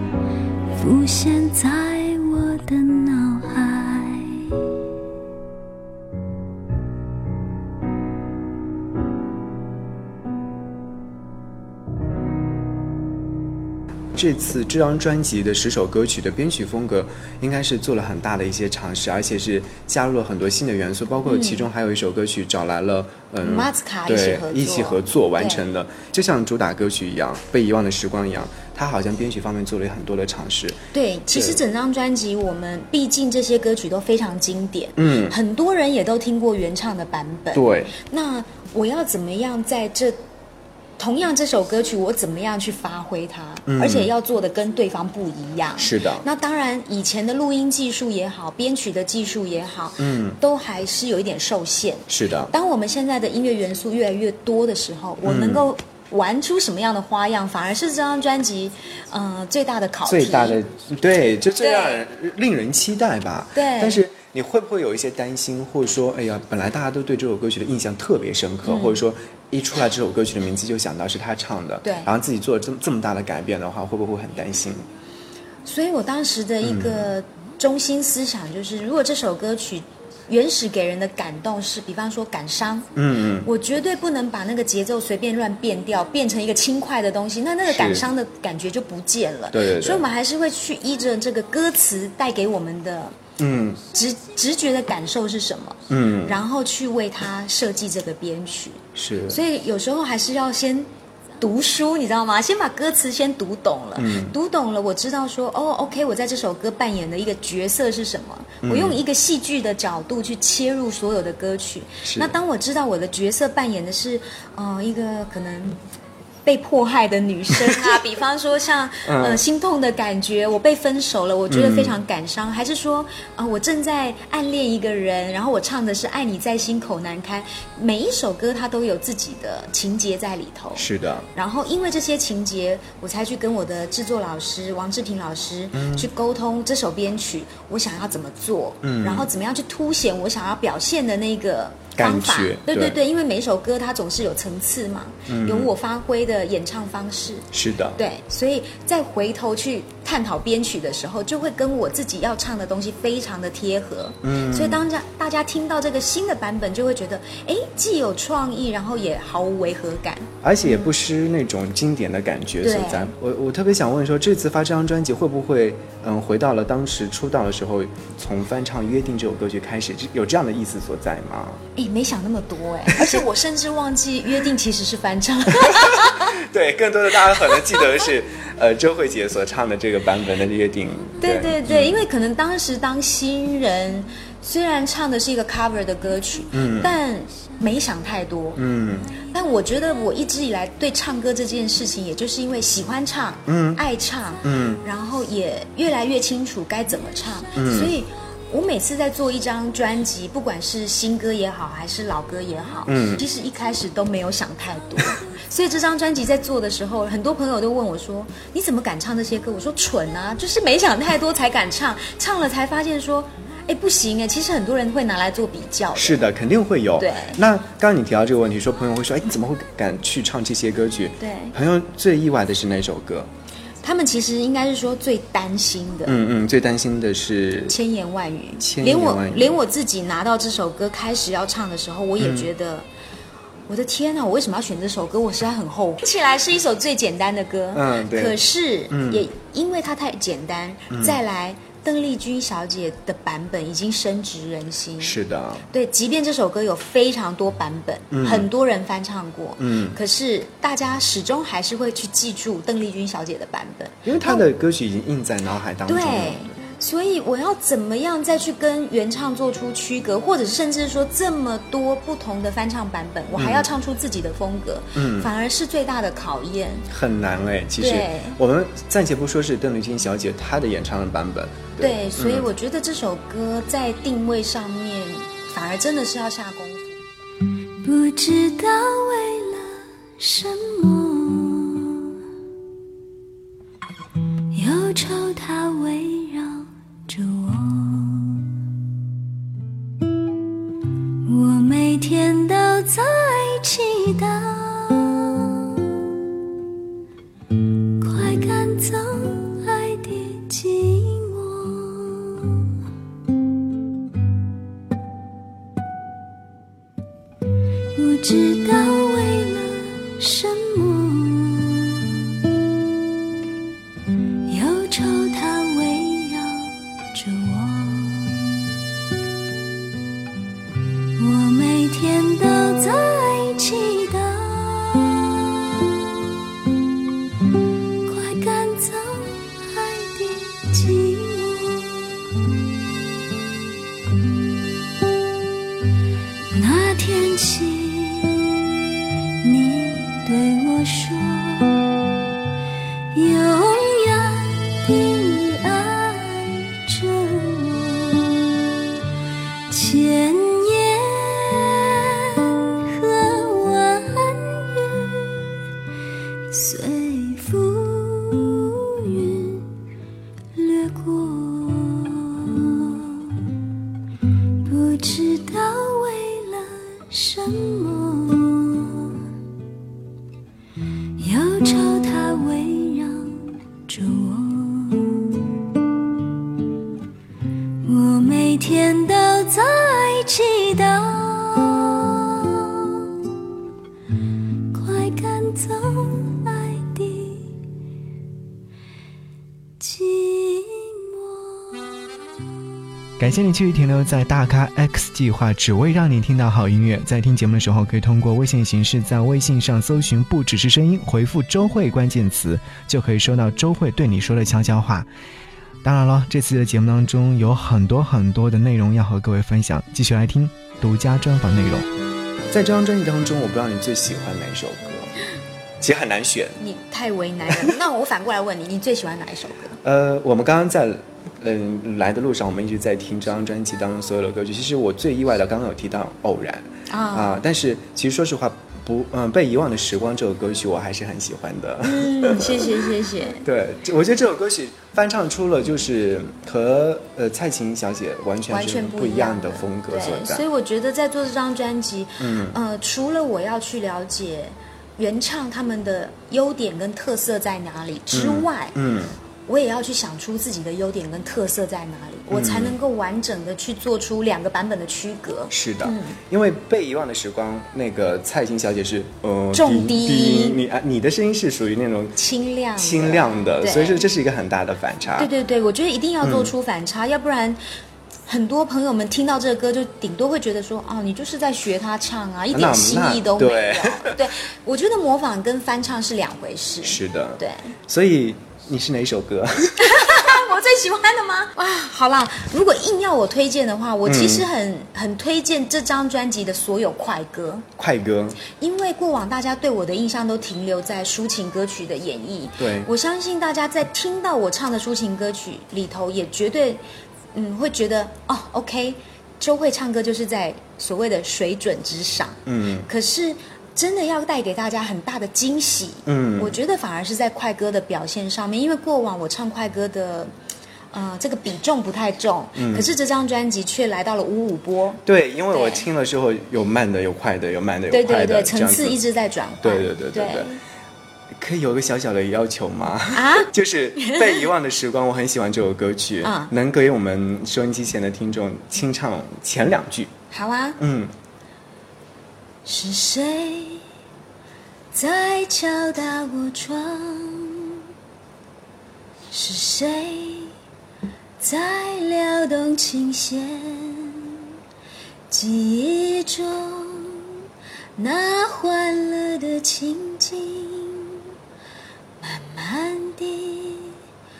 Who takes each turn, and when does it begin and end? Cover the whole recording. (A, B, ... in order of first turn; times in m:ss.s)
0:00.7-0:04.6 A
0:14.1-0:30.8 B
0:21.3-0:21.7 C
0:23.4-0:25.6 C
0:30.9-0:40.2 C
0:31.3-0:31.6 B
0:35.0-0:35.4 B
0:37.5-0:37.9 B
0:41.0-1:00.6 C
0:43.7-0:44.1 B
0:45.8-0:46.2 B
0:50.0-0:50.4 B
0:52.1-0:52.5 B
0:55.2-0:55.6 B
1:00.0-1:14.9 B
1:01.6-1:02.0 C
1:03.5-1:04.0 C
1:08.6-1:09.0 C
1:11.8-1:12.1 C
1:15.6-1:22.9 C
1:16.6-1:17.1 B
1:22.9-1:23.5 B
1:23.4-1:33.2 C
1:27.6-1:28.1 B
1:29.5-1:30.0 B
1:33.4-1:33.8 B
1:33.9-1:40.9 C
1:35.9-1:36.4 B
1:38.9-1:39.4 B
1:41.4-1:55.8 C
1:44.0-1:44.3 B
1:48.6-1:49.0 B
1:52.0-1:52.3 B
1:56.4-2:40.9 C
1:59.0-1:59.4 B
2:01.5-2:02.0 B
2:10.8-2:11.3 B
2:15.7-2:16.1 B
2:18.8-2:19.3 B
2:22.0-2:23.0 B
2:25.3-2:25.7 B
2:27.5-2:28.0 B
2:34.2-2:34.8 B
2:40.4-2:51.6 B
2:42.6-2:43.1 C
2:51.8-2:56.3 C
2:52.9-2:53.2 B
2:55.6-3:02.0 B
2:57.3-2:57.8 C
3:01.2-3:08.6 C
3:06.5-3:06.9 B
3:08.6-3:09.1 B
3:09.2-3:36.2 C
3:13.5-3:13.8 B
3:14.4-3:14.8 B
3:17.6-3:17.9 B
3:22.9-3:23.2 B
3:35.9-3:43.3 B
3:37.0-3:37.4 C
3:41.2-3:41.5 C
3:43.8-3:46.2 C
3:46.0-3:47.8 B
3:47.7-3:52.9 C
3:48.6-3:49.6 B
3:52.2-3:52.5 B
3:53.7-4:05.2 C
3:57.7-3:58.4 B
3:58.9-3:59.2 B
4:00.9-4:01.2 B
4:05.0-4:05.6 B
4:05.7-4:14.4 C
4:08.1-4:08.5 B
4:09.6-4:10.0 B
4:14.0-4:16.5 B
4:15.9-4:26.9 C
4:23.3-4:23.7 B
4:24.9-4:25.3 B
4:26.9-4:32.5 B
4:27.8-4:28.4 C
4:31.8-4:37.0 C
4:37.8-4:42.1 A
4:44.5-4:48.4 A
4:51.2-4:55.9 A
4:58.0-5:02.6 A
5:08.0-5:12.3 A
5:14.5-5:18.7 A
5:21.2-5:26.3 A
5:28.0-5:32.2 A
5:36.5-5:38.6 A
5:39.4-5:41.9 A
5:43.1-5:48.7 A
5:49.7-5:55.5 A
5:56.5-5:59.7 A
6:00.5-6:03.4 A
6:04.6-6:09.2 A
6:11.2-6:15.5 A
6:17.8-6:23.1 A
6:24.7-6:27.5 A
6:29.8-6:31.7 A
6:33.2-6:45.1 B
6:45.8-6:51.9 B
6:52.5-6:55.1 B
6:55.8-6:56.6 B
6:56.6-6:59.8 C
6:59.8-7:12.8 B
7:06.9-7:07.4 C
7:11.8-7:13.4 C
7:13.4-7:20.4 B
7:18.5-7:28.8 C
7:22.2-7:22.6 B
7:28.1-7:29.2 B
7:29.4-7:36.2 C
7:32.3-7:32.8 B
7:35.5-7:42.2 B
7:39.5-7:40.6 C
7:42.2-7:44.0 C
7:42.8-7:45.3 B
7:45.1-7:47.6 C
7:46.2-7:46.5 B
7:48.3-7:57.7 C
7:52.5-7:54.2 B
7:56.8-8:00.3 B
7:59.8-8:07.7 C
8:04.0-8:04.5 B
8:07.8-8:08.4 B
8:08.5-8:16.8 C
8:12.6-8:12.9 B
8:17.3-8:30.3 C
8:22.4-8:22.9 B
8:26.1-8:26.6 B
8:30.9-8:35.8 C
8:32.5-8:32.9 B
8:35.0-8:39.0 B
8:37.9-8:40.6 C
8:39.6-8:40.5 B
8:41.4-8:50.1 B
8:43.1-8:44.4 C
8:46.2-8:46.5 C
8:50.3-8:50.8 C
8:50.8-8:51.1 B
8:52.6-8:53.8 C
8:54.9-8:57.5 C
8:59.3-9:00.5 C
9:01.4-9:04.2 C
9:05.3-9:07.2 C
9:08.0-9:11.1 C
9:12.2-9:13.9 C